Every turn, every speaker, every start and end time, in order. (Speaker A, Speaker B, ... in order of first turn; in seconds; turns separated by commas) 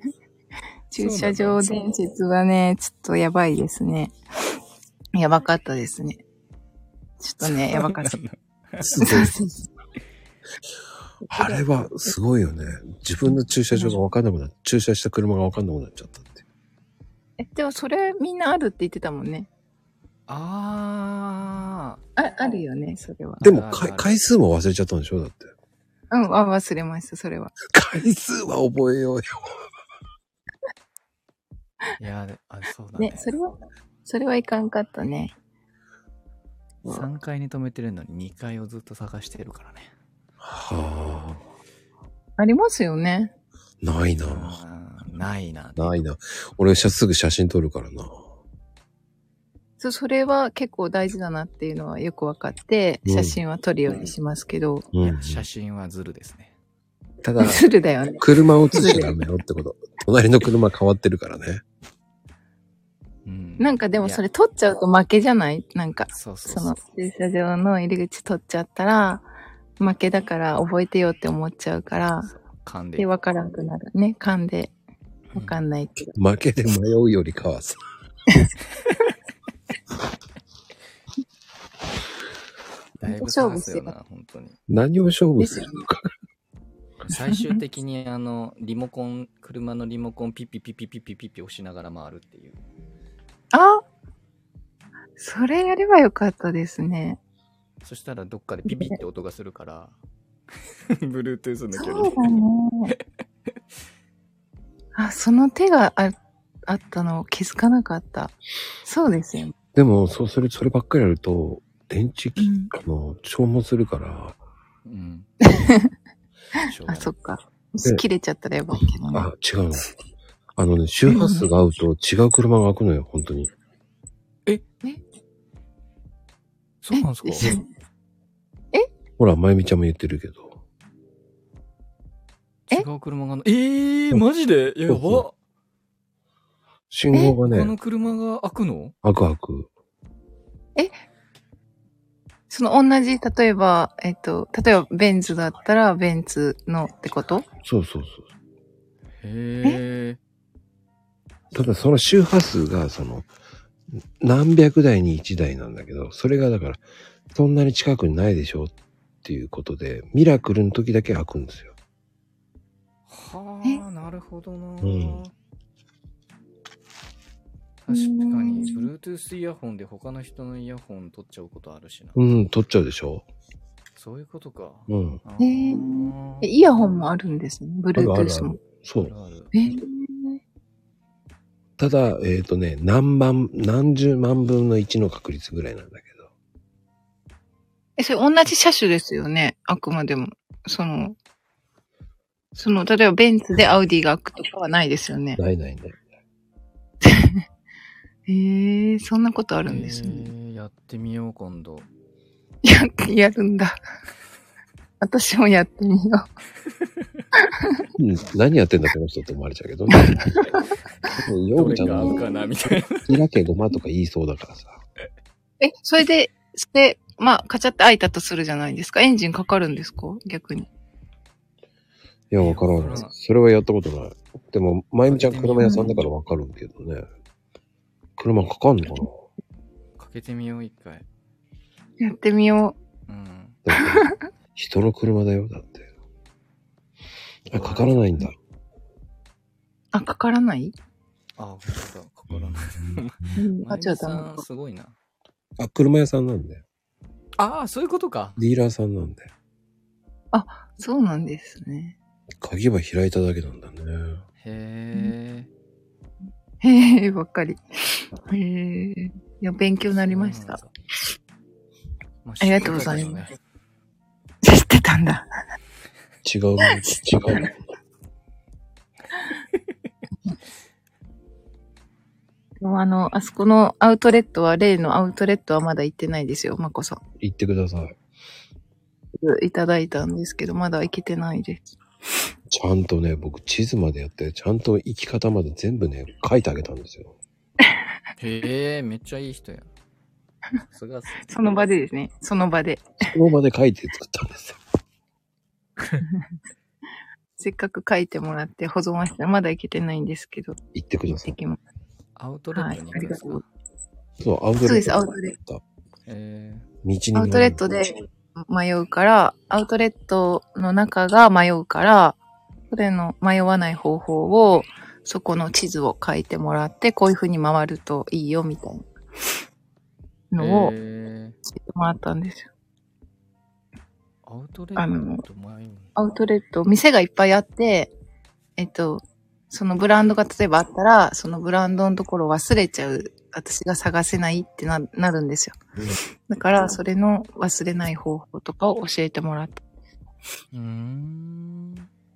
Speaker A: 0.9-4.1, Speaker B: 0.9-1.6, Speaker A: 5.1-6.2, Speaker A: 7.2-8.2, Speaker B: 7.4-9.1, Speaker C: 8.8-9.3, Speaker A: 9.0-9.6, Speaker A: 11.2-11.6, Speaker C: 11.3-16.4, Speaker A: 13.7-14.0, Speaker A: 17.4-19.5, Speaker B: 20.3-22.0, Speaker A: 22.2-23.4, Speaker B: 23.4-24.1, Speaker C: 23.4-25.5, Speaker A: 26.1-27.5, Speaker C: 27.7-29.6, Speaker B: 32.0-33.3, Speaker A: 33.0-35.3, Speaker B: 36.8-39.9, Speaker C: 40.4-41.4, Speaker A: 42.4-43.3, Speaker C: 43.8-44.6, Speaker B: 44.2-46.0, Speaker C: 45.8-48.2, Speaker A: 49.8-54.9, Speaker C: 53.0-53.4, Speaker C: 54.9-55.4, Speaker B: 55.0-56.5, Speaker C: 57.2-57.6, Speaker A: 57.4-59.2, Speaker C: 58.2-61.6, Speaker B: 63.2-64.2, Speaker A: 63.6-69.3, Speaker B: 66.1-66.8, Speaker A: 69.8-72.3, Speaker B: 72.2-73.1, Speaker A: 73.0-74.7, Speaker B: 75.3-75.6, Speaker A: 75.3-76.1, Speaker C: 76.1-77.8, Speaker A: 83.0-83.9, Speaker B: 83.0-84.6, Speaker C: 84.7-86.1, Speaker A: 85.4-85.7, Speaker B: 87.0-92.6, Speaker A: 87.3-87.5, Speaker A: 93.5-93.8, Speaker A: 95.2-97.2, Speaker B: 97.8-100.0, Speaker B: 100.9-102.3, Speaker A: 101.7-102.9, Speaker A: 104.9-106.2, Speaker A: 106.7-109.5, Speaker C: 109.7-114.4, Speaker A: 112.4-112.7, Speaker B: 114.8-115.3, Speaker A: 115.4-115.9, Speaker B: 116.6-117.1, Speaker A: 116.9-119.3, Speaker C: 119.1-119.9, Speaker C: 120.5-123.5, Speaker A: 121.1-121.5, Speaker B: 126.8-127.5, Speaker A: 126.9-127.6, Speaker C: 129.2-130.6, Speaker B: 132.7-135.3, Speaker C: 134.9-135.2, Speaker C: 136.9-137.7, Speaker B: 137.4-138.9, Speaker C: 139.0-139.7, Speaker A: 142.5-147.4, Speaker C: 147.5-148.2, Speaker B: 149.2-150.2, Speaker C: 151.5-153.3, Speaker C: 154.2-161.7, Speaker B: 163.1-165.3, Speaker C: 164.8-165.2, Speaker B: 167.8-172.2, Speaker A: 167.9-168.9, Speaker C: 172.1-173.2, Speaker B: 173.9-176.8, Speaker C: 174.9-175.2, Speaker A: 175.4-178.6, Speaker C: 177.9-179.1, Speaker B: 178.9-179.5, Speaker A: 179.5-180.4, Speaker C: 181.8-186.3, Speaker A: 188.0-191.2, Speaker A: 192.6-195.4, Speaker C: 195.3-196.0, Speaker A: 197.0-197.4, Speaker A: 198.3-200.3, Speaker B: 199.6-201.9, Speaker A: 202.6-203.8, Speaker A: 205.0-206.2, Speaker B: 206.8-207.2, Speaker A: 207.4-207.8, Speaker C: 208.0-210.3, Speaker A: 209.9-210.7, Speaker C: 211.1-212.2, Speaker B: 211.5-213.1, Speaker C: 212.9-214.8, Speaker A: 215.6-220.7, Speaker C: 222.3-227.1, Speaker B: 222.4-223.1, Speaker B: 225.1-226.0, Speaker A: 225.6-226.0, Speaker C: 228.2-229.2, Speaker B: 230.0-231.1, Speaker A: 232.0-232.8, Speaker B: 233.1-233.6, Speaker C: 233.7-235.9, Speaker A: 233.8-234.2, Speaker B: 237.4-238.0, Speaker C: 237.5-238.3, Speaker A: 239.9-240.7, Speaker B: 241.4-244.9, Speaker C: 242.3-243.3, Speaker A: 243.3-244.4, Speaker C: 245.6-246.6, Speaker B: 247.4-248.4, Speaker C: 248.4-249.3, Speaker A: 250.3-251.9, Speaker C: 252.4-254.2, Speaker B: 254.4-255.5, Speaker A: 256.6-260.6, Speaker B: 260.1-260.7, Speaker B: 262.2-263.3, Speaker A: 262.4-263.2, Speaker A: 264.4-265.3, Speaker C: 266.2-267.5, Speaker A: 272.6-277.0, Speaker C: 277.2-277.9, Speaker A: 279.2-281.7, Speaker C: 282.5-287.1, Speaker B: 288.2-289.7, Speaker B: 290.7-291.3, Speaker A: 291.2-292.9, Speaker C: 293.0-294.6, Speaker A: 297.4-300.6, Speaker C: 300.7-301.4, Speaker A: 301.1-301.6, Speaker B: 302.1-303.5, Speaker A: 302.5-303.4, Speaker C: 304.2-305.6, Speaker A: 304.6-305.3, Speaker B: 306.1-306.7, Speaker C: 306.8-307.6, Speaker A: 307.1-312.2, Speaker A: 312.7-318.9, Speaker A: 320.3-320.7, Speaker B: 320.4-321.4, Speaker A: 321.6-322.5, Speaker B: 324.2-325.9, Speaker A: 324.8-325.2, Speaker A: 325.9-327.9, Speaker A: 328.6-335.5, Speaker A: 336.3-339.6, Speaker B: 340.5-341.9